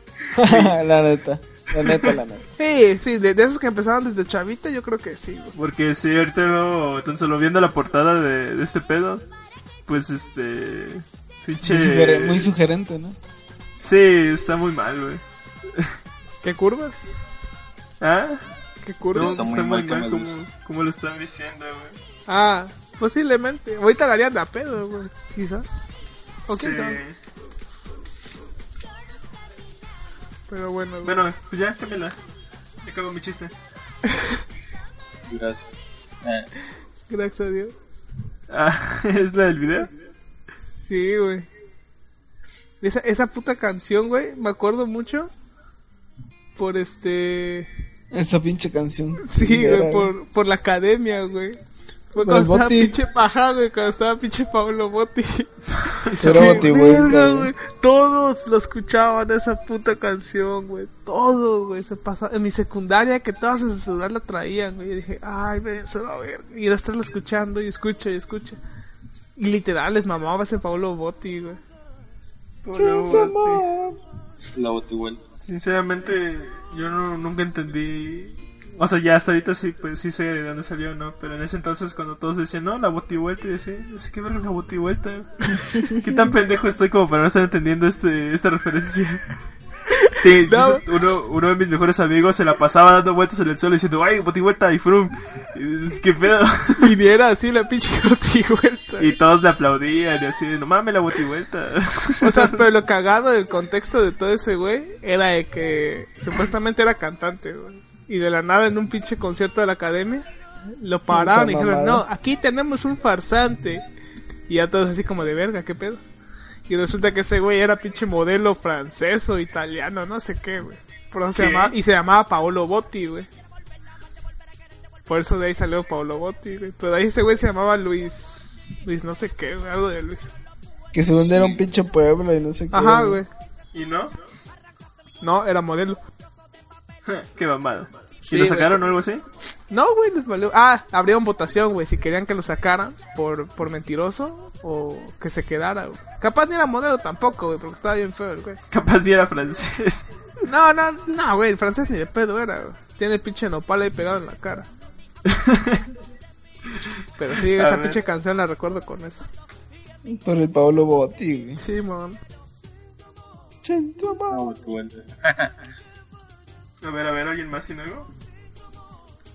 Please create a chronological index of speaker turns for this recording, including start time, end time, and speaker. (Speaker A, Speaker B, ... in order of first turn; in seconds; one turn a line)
Speaker A: 0.3-2.5
Speaker B: 0.4-0.7
Speaker B: 1.8-2.1
Speaker C: 2.6-5.5
Speaker B: 5.5-9.2
Speaker B: 9.9-12.5
Speaker A: 11.6-13.2
Speaker B: 13.8-15.2
Speaker C: 16.4-17.1
Speaker B: 18.0-18.5
Speaker C: 18.8-19.4
Speaker B: 19.1-22.0
Speaker D: 19.1-20.4
Speaker C: 22.3-25.8
Speaker C: 26.5-27.0
Speaker B: 26.5-27.1
Speaker C: 30.5-31.2
Speaker B: 31.1-32.2
Speaker B: 32.8-33.5
Speaker D: 35.3-36.5
Speaker C: 37.1-37.7
Speaker B: 38.5-39.9
Speaker C: 40.8-41.5
Speaker C: 42.8-45.3
Speaker C: 46.6-47.7
Speaker A: 48.1-50.1
Speaker C: 49.2-51.6
Speaker C: 52.1-68.6
Speaker A: 52.2-53.0
Speaker B: 56.0-56.7
Speaker A: 56.2-57.5
Speaker C: 69.4-71.6
Speaker B: 72.6-73.7
Speaker A: 72.7-74.0
Speaker D: 74.5-75.2
Speaker B: 75.5-89.2
Speaker B: 90.2-96.9
Speaker C: 90.4-90.8
Speaker C: 96.8-99.2
Speaker B: 99.0-102.7
Speaker C: 102.2-113.8
Speaker A: 111.1-112.0
Speaker C: 114.5-116.0
Speaker C: 116.7-123.3
Speaker B: 121.3-121.7
Speaker C: 125.1-130.3
Speaker A: 130.9-133.2
Speaker D: 131.2-131.6
Speaker C: 132.7-133.3
Speaker B: 133.7-134.1
Speaker C: 135.2-136.0
Speaker B: 137.1-139.2
Speaker C: 138.3-138.8
Speaker C: 139.7-148.6
Speaker B: 148.7-150.1
Speaker C: 150.5-154.7
Speaker B: 155.3-155.8
Speaker C: 157.2-159.3
Speaker B: 157.4-158.0
Speaker A: 160.1-161.6
Speaker C: 161.6-162.2
Speaker A: 163.6-164.5
Speaker D: 164.3-165.6
Speaker B: 166.8-168.1